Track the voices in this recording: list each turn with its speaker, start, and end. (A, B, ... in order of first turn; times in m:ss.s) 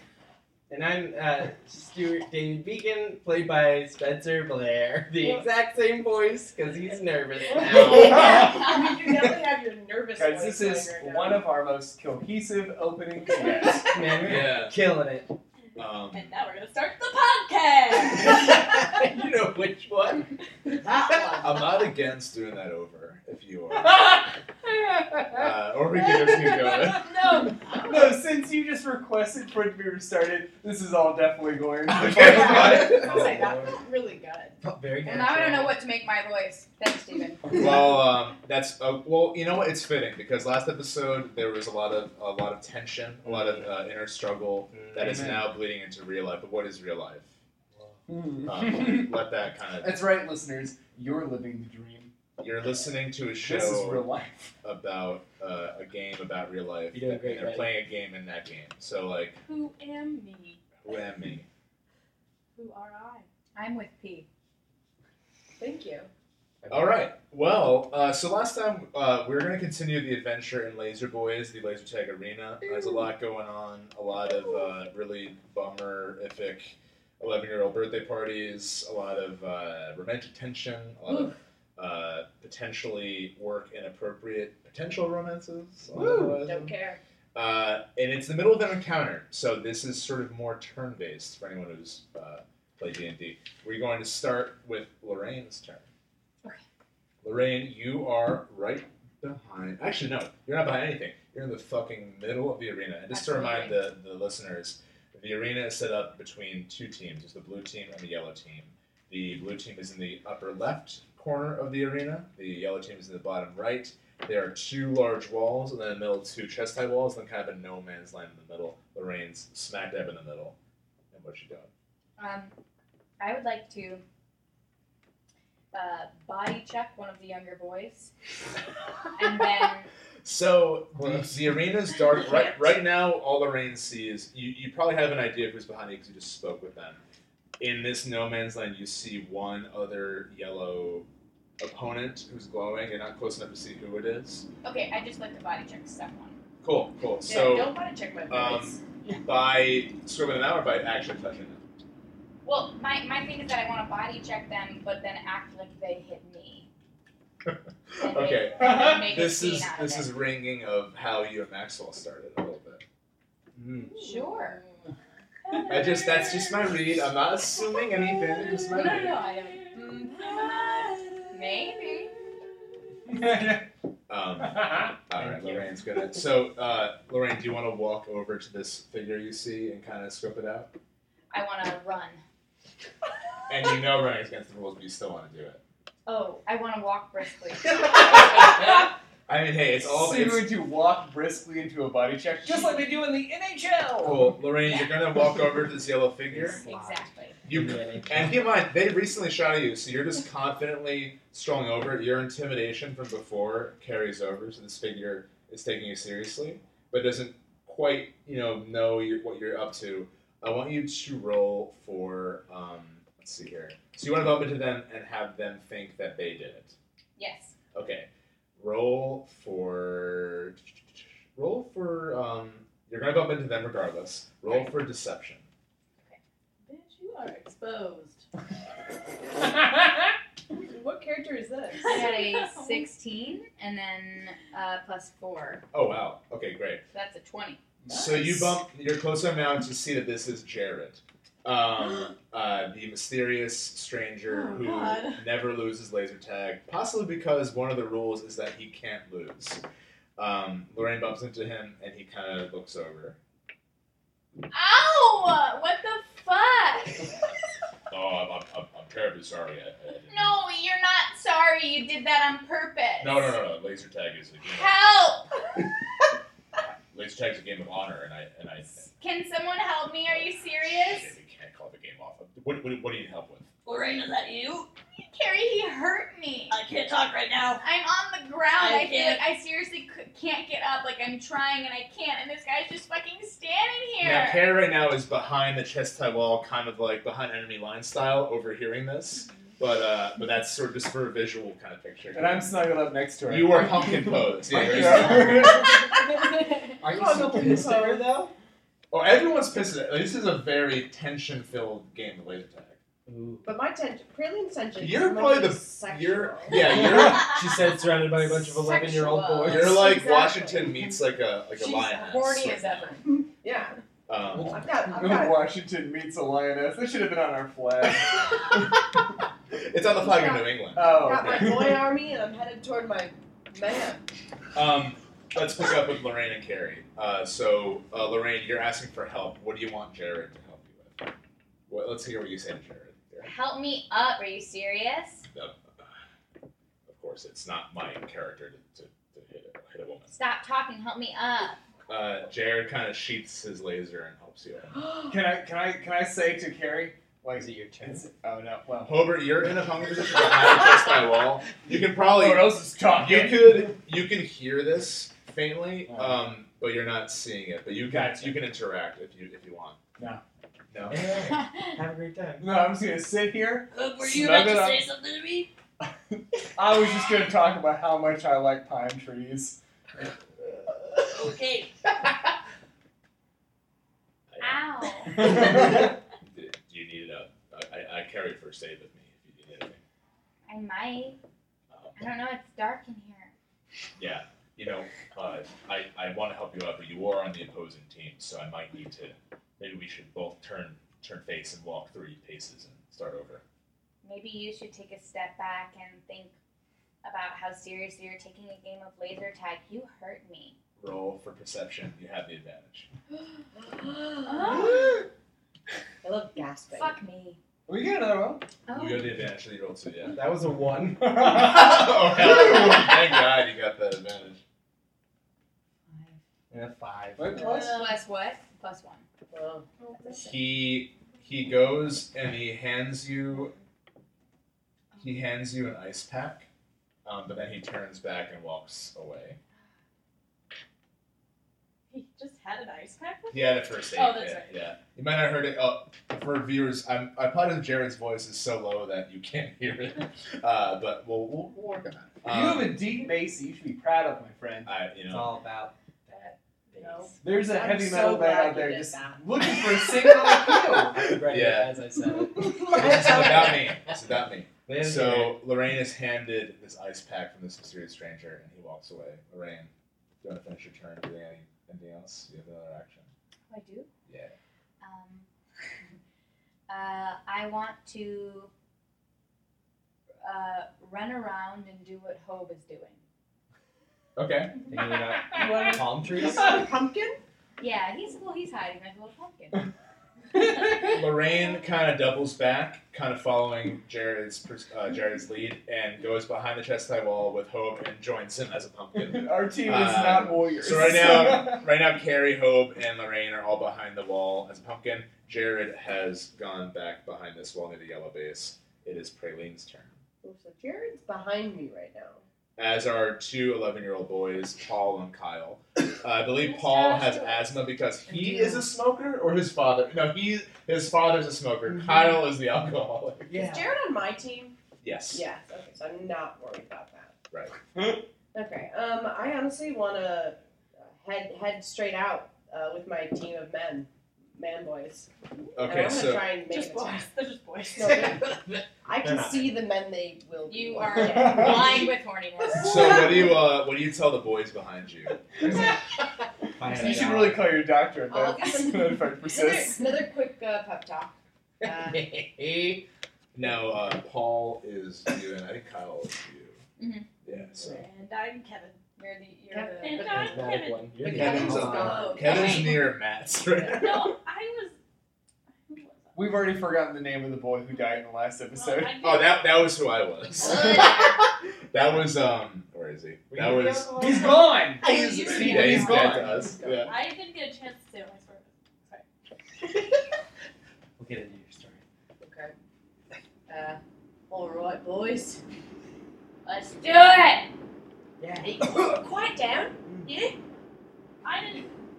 0:00.7-0:08.2 A
0:07.7-0:08.2 B
0:07.7-0:11.5 C
0:08.0-0:08.7 D
0:10.2-0:14.2 D
0:13.9-0:15.4 A
0:14.2-0:14.7 B
0:15.8-0:18.4 E
0:15.8-0:16.4 B
0:18.1-0:20.3 B
0:20.8-0:21.7 C
0:21.3-0:24.2 B
0:23.8-0:25.5 D
0:25.3-0:27.1 B
0:26.2-0:28.1 E
0:27.3-0:33.2 D
0:31.9-0:33.4 B
0:32.3-0:34.6 C
0:32.9-0:33.8 A
0:34.6-0:35.8 A
0:35.0-0:37.8 F
0:37.5-0:47.3 B
0:43.2-0:43.7 A
0:44.7-0:45.5 A
0:45.0-0:45.4 D
0:47.7-0:48.0 A
0:48.1-0:49.1 D
0:48.5-0:50.0 B
0:49.8-0:52.1 D
0:52.4-0:54.1 B
0:53.3-0:54.5 D
0:54.6-0:59.4 B
0:56.9-0:57.8 A
0:59.4-1:00.6 E
1:00.8-1:01.5 B
1:02.6-1:03.3 E
1:03.6-1:04.3 F
1:05.6-1:06.1 C
1:06.6-1:07.0 A
1:06.7-1:26.7 B
1:21.1-1:21.4 C
1:25.9-1:26.4 A
1:26.0-1:26.4 D
1:26.4-1:27.0 C
1:27.3-1:35.9 B
1:37.2-2:00.6 B
1:43.1-1:43.8 F
2:01.1-2:01.7 B
2:02.2-2:02.5 F
2:03.2-2:04.0 F
2:05.7-2:08.1 F
2:09.2-2:09.9 F
2:10.2-2:17.0 B
2:11.0-2:11.3 A
2:17.6-2:21.1 B
2:21.6-2:24.5 B
2:24.6-2:26.4 F
2:26.6-2:27.7 B
2:27.2-2:28.8 C
2:28.3-2:31.6 B
2:32.4-2:36.7 F
2:37.5-2:42.8 B
2:38.0-2:40.1 F
2:38.6-2:39.1 D
2:43.6-2:43.9 A
2:44.0-2:44.6 F
2:44.0-2:44.3 C
2:45.5-2:47.0 E
2:45.7-2:49.2 B
2:47.7-2:51.1 E
2:48.5-2:52.1 F
2:49.8-2:50.6 C
2:53.1-2:53.7 D
2:54.1-3:00.8 B
2:54.4-2:55.0 D
2:55.2-2:55.7 A
3:01.3-3:02.2 F
3:03.5-3:05.6 B
3:06.1-3:08.6 F
3:07.7-3:10.5 B
3:09.8-3:14.3 D
3:14.0-3:16.6 B
3:14.7-3:15.0 F
3:16.3-3:18.4 A
3:16.3-3:17.4 F
3:17.4-3:36.8 B
3:37.2-3:37.6 F
3:37.7-3:45.5 B
3:46.6-3:48.2 E
3:50.5-3:52.0 C
3:51.8-3:52.9 E
3:51.8-3:55.6 F
3:55.7-3:56.8 B
3:56.9-3:57.6 F
3:57.9-4:09.6 B
3:57.9-3:58.3 C
4:04.3-4:05.2 E
4:10.2-4:13.2 B
4:14.5-4:17.1 F
4:17.9-4:20.4 B
4:20.1-4:23.4 F
4:23.0-4:24.7 B
4:24.5-4:25.3 F
4:26.6-4:28.8 B
4:28.8-4:31.1 F
4:30.1-4:33.5 B
4:33.7-4:34.7 E
4:35.1-4:36.6 F
4:36.5-4:37.6 E
4:37.6-4:44.4 F
4:38.6-4:39.2 E
4:44.0-4:52.6 B
4:52.1-4:55.8 D
4:53.3-4:55.8 B
4:56.2-4:58.0 C
4:56.8-4:57.8 D
4:56.8-4:58.3 A
4:58.9-5:02.8 B
5:03.1-5:03.5 A
5:03.4-5:06.7 C
5:04.8-5:07.4 B
5:06.6-5:09.8 A
5:08.1-5:09.9 F
5:09.4-5:13.0 B
5:09.6-5:10.7 C
5:11.6-5:13.8 C
5:12.1-5:13.0 F
5:14.1-5:14.6 B
5:14.3-5:18.4 D
5:14.4-5:15.5 C
5:19.6-5:21.4 B
5:19.9-5:24.0 C
5:20.7-5:21.9 D
5:24.5-5:31.0 B
5:31.7-5:33.3 B
5:33.2-5:35.3 F
5:35.3-5:35.9 B
5:36.9-5:40.1 B
5:40.1-5:41.6 F
5:41.9-5:44.8 B
5:44.8-5:45.1 C
5:45.1-5:49.3 D
5:47.4-5:48.1 A
5:48.8-5:59.8 B
5:51.6-5:53.7 D
5:55.9-5:56.2 D
5:57.9-5:58.3 D
6:00.7-6:01.0 B
6:00.9-6:02.5 A
6:01.2-6:01.8 F
6:02.4-6:04.8 D
6:03.7-6:05.5 E
6:05.8-6:09.6 D
6:11.1-6:11.8 E
6:14.3-6:15.7 B
6:14.4-6:15.7 F
6:15.2-6:15.9 D
6:16.2-6:19.8 B
6:20.5-6:21.2 F
6:21.7-6:22.0 B
6:22.0-6:23.3 F
6:24.0-6:33.4 B
6:34.0-6:36.3 F
6:37.0-6:40.6 F
6:40.8-6:42.9 B
6:43.5-6:44.7 C
6:44.3-6:44.9 F
6:44.5-6:45.0 D
6:46.0-6:47.0 C
6:46.7-6:47.4 F
6:47.7-6:48.5 D
6:48.7-6:49.2 F
6:48.7-6:50.2 B
6:50.1-6:51.2 A
6:51.0-6:52.0 D
6:51.2-6:54.4 B
6:55.9-6:56.2 F
6:56.5-6:57.3 A
6:57.2-6:58.0 D
6:57.4-6:57.7 E
6:57.4-6:59.1 F
6:59.3-7:00.3 C
7:00.0-7:00.2 F
7:00.2-7:03.5 B
7:04.9-7:05.2 F
7:05.0-7:06.5 B
7:07.0-7:09.4 B
7:11.9-7:14.6 E
7:13.3-7:22.9 B
7:22.2-7:24.7 D
7:24.7-7:25.3 B
7:25.1-7:27.2 A
7:26.8-7:27.1 E
7:27.2-7:31.0 D
7:27.3-7:30.0 C
7:30.9-7:33.6 A
7:31.2-7:31.7 B
7:32.4-7:33.8 C
7:32.7-7:39.7 B
7:34.7-7:35.4 A
7:40.2-7:43.1 B
7:43.5-7:43.9 F
7:44.1-7:44.3 B
7:44.8-7:45.3 F
7:46.7-7:48.5 F
7:50.2-7:53.0 F
7:54.2-7:54.6 B
7:54.7-7:56.5 A
7:55.3-7:57.2 C
7:57.6-7:59.7 F
8:00.6-8:00.9 D
8:00.9-8:20.0 B
8:08.9-8:11.6 D
8:20.2-8:22.2 C
8:22.6-8:33.3 B
8:26.6-8:27.4 F
8:28.1-8:28.6 A
8:33.3-8:33.7 A
8:33.3-8:34.6 C
8:34.8-8:35.2 B
8:35.1-8:37.2 C
8:37.3-8:37.6 B
8:37.8-8:38.0 D
8:38.3-8:45.1 C
8:45.6-8:46.3 B
8:45.6-8:47.1 C
8:46.5-8:48.2 E
8:47.8-8:51.9 C
8:48.1-8:49.6 A
8:50.5-8:53.2 F
8:51.0-8:51.9 D
8:52.5-8:55.2 B
8:55.4-8:55.8 D
8:56.6-8:57.5 A
8:56.6-8:59.8 D
8:56.8-8:57.2 C
8:58.1-9:02.0 C
9:01.6-9:02.8 A
9:03.3-9:06.6 B
9:06.8-9:07.1 F
9:07.2-9:07.9 B
9:07.6-9:08.8 E
9:09.0-9:10.3 F
9:09.5-9:10.4 C
9:09.8-9:10.9 E
9:10.0-9:12.1 A
9:11.0-9:12.6 C
9:11.0-9:14.2 B
9:11.6-9:12.8 E
9:12.0-9:12.6 F
9:13.6-9:14.8 E
9:15.7-9:16.5 E
9:16.2-9:19.0 D
9:17.7-9:18.0 E
9:18.5-9:19.4 E
9:19.0-9:21.2 B
9:20.4-9:21.1 E
9:20.5-9:21.2 F
9:21.7-9:24.0 B
9:23.3-9:24.4 A
9:24.0-9:24.9 D
9:24.8-9:26.9 B
9:24.9-9:26.3 F
9:25.2-9:26.9 C
9:26.8-9:29.0 E
9:31.0-9:31.8 A
9:32.2-9:32.5 C
9:33.5-9:35.4 C
9:36.4-9:37.5 F
9:38.2-9:38.7 A
9:38.4-9:40.4 C
9:41.2-9:41.7 E